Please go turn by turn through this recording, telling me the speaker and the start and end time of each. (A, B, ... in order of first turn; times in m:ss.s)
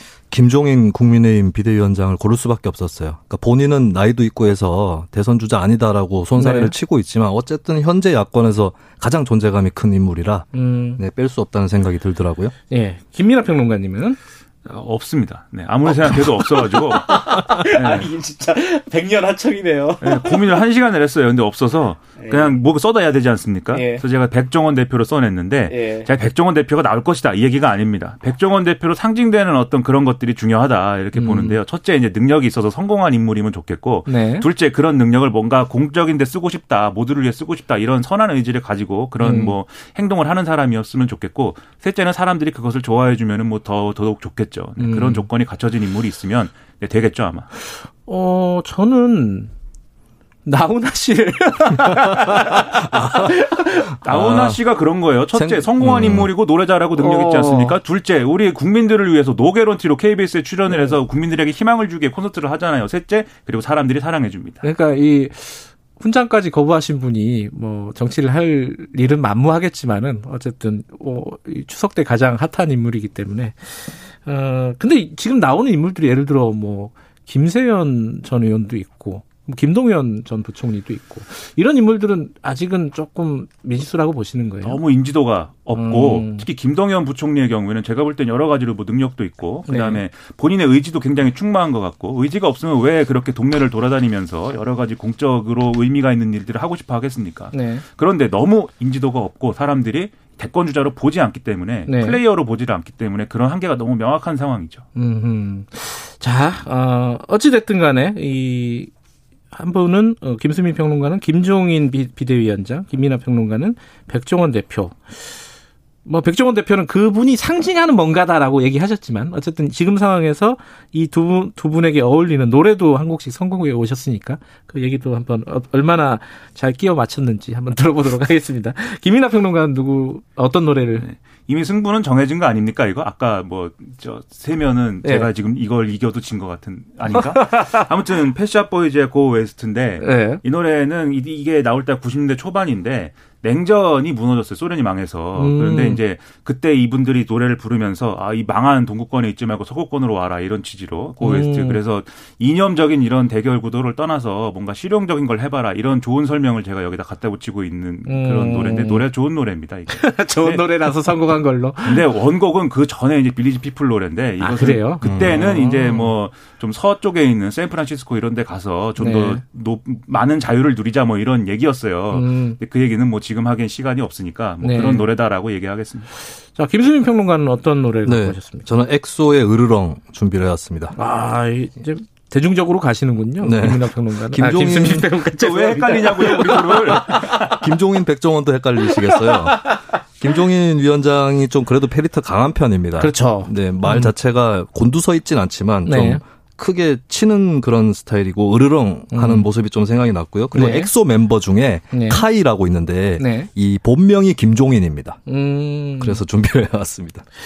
0:00.3-0:12.5 A
0:06.4-0:06.7 B
0:10.5-0:11.0 B
0:12.7-0:14.2 B
0:14.6-0:18.1 C
0:15.8-0:20.6 B
0:20.0-0:47.5 C
0:22.2-0:22.6 B
0:23.7-0:24.0 B
0:25.7-0:26.1 B
0:31.1-0:31.6 B
0:34.1-0:34.5 B
0:39.2-0:39.5 B
0:44.8-0:45.3 B
0:48.0-0:49.5 B
0:50.4-0:54.0 B
0:54.0-1:04.6 C
0:54.1-0:54.5 A
0:55.3-0:55.6 B
0:55.4-0:56.3 A
0:56.9-0:57.8 B
1:00.7-1:01.0 B
1:04.6-1:24.8 B
1:24.6-1:44.8 C
1:25.7-1:26.5 B
1:29.6-1:30.0 B
1:37.5-1:37.8 B
1:41.9-1:42.2 B
1:45.0-1:48.9 B
1:49.5-1:55.5 B
1:56.0-2:11.1 B
2:11.0-2:40.6 C
2:15.0-2:15.3 B
2:17.1-2:17.9 B
2:20.0-2:20.4 B
2:25.4-2:26.0 B
2:31.2-2:31.8 B
2:38.0-2:39.1 B
2:39.9-2:42.1 B
2:41.8-2:56.1 C
2:44.4-2:46.1 B
2:45.0-2:45.4 A
2:49.0-2:49.4 B
2:52.1-2:52.6 B
2:54.6-2:55.1 B
2:56.5-2:58.7 B
2:58.0-3:00.9 A
3:00.9-3:07.6 B
3:03.4-3:05.1 A
3:05.2-3:07.6 C
3:07.6-3:25.2 A
3:09.0-3:09.8 B
3:13.0-3:14.1 B
3:15.8-3:16.2 B
3:19.1-3:19.5 B
3:20.5-3:20.9 B
3:21.9-3:22.2 B
3:23.2-3:23.5 B
3:25.3-3:26.2 B
3:26.0-3:27.2 A